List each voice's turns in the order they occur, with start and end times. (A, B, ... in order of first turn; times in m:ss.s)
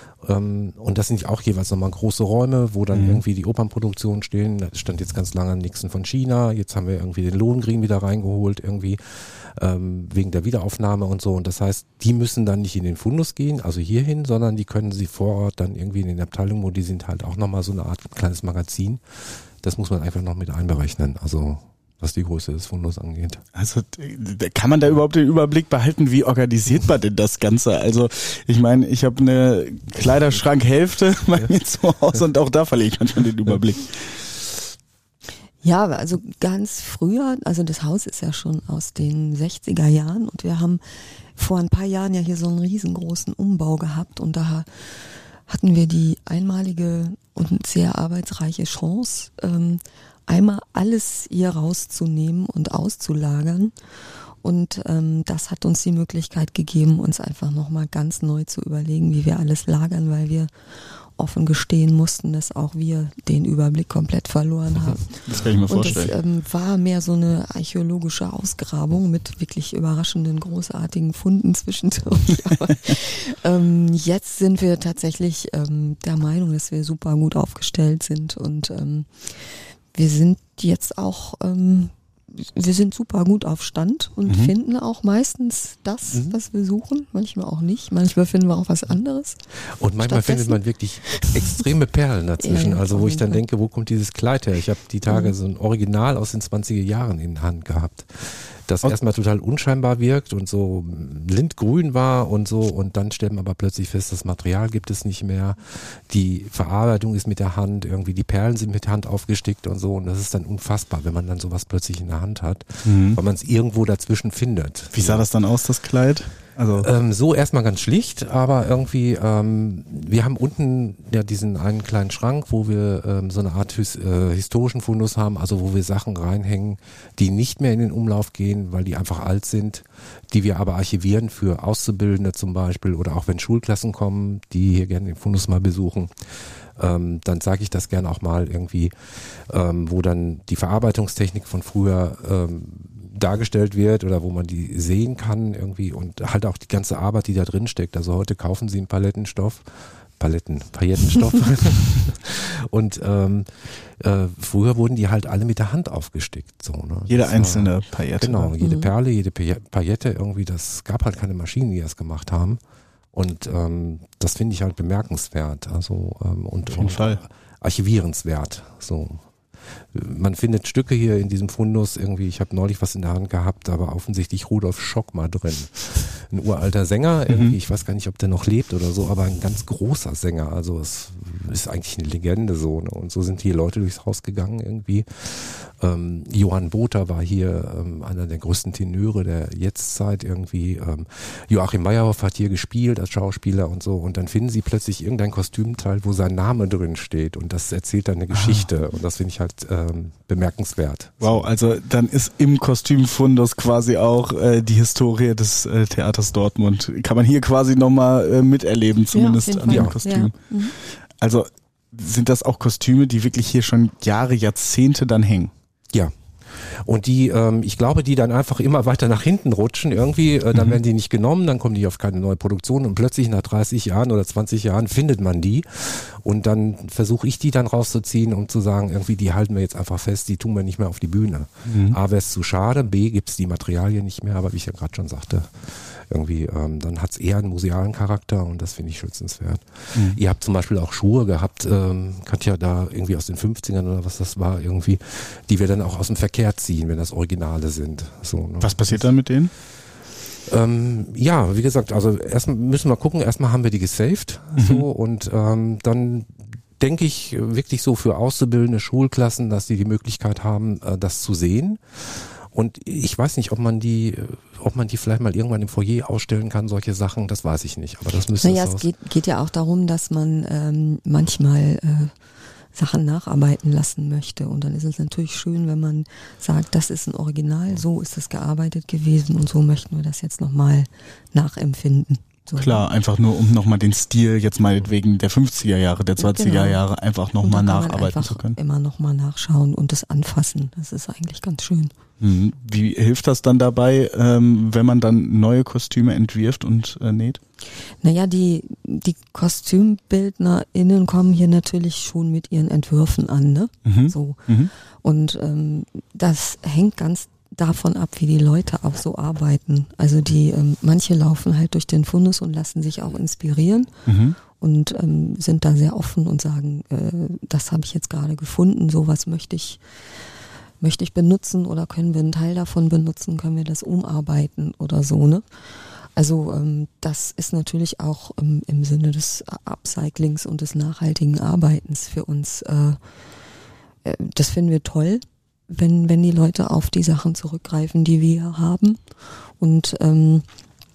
0:00.2-0:23.4 A
0:02.9-0:03.2 B
0:23.6-0:34.3 B
0:35.6-0:53.7 C
0:54.4-1:00.5 C
1:01.2-1:29.4 C
1:05.2-1:06.1 B
1:24.3-1:24.5 B
1:29.8-1:55.2 A
1:30.0-1:30.6 C
1:31.1-1:31.5 C
1:32.4-1:33.4 C
1:52.8-1:53.2 B
1:54.9-1:56.9 B
1:56.8-2:16.1 A
2:16.8-2:42.6 A
2:37.1-2:38.5 B
2:38.6-2:38.9 C
2:43.1-2:49.2 A
2:46.7-2:47.2 B
2:49.9-3:21.4 A
2:57.3-2:57.6 B
3:18.3-3:18.7 B
3:21.2-3:35.5 B
3:29.1-3:30.7 C
3:29.7-3:30.0 A
3:35.9-4:09.0 A
3:51.7-3:52.0 B
4:08.6-4:09.5 B
4:10.4-4:28.9 A
4:14.6-4:14.8 B
4:28.4-4:32.1 C
4:32.8-4:42.8 C
4:42.6-4:48.6 B
4:46.2-4:46.8 C
4:47.4-4:51.9 C
4:52.2-4:57.4 B
4:58.0-5:04.4 C
5:03.8-5:04.7 B
5:05.0-5:13.9 C
5:14.1-5:14.4 B
5:14.6-5:19.8 C
5:20.8-5:25.4 C
5:26.2-5:33.0 C
5:34.0-5:39.0 C
5:39.6-5:40.4 C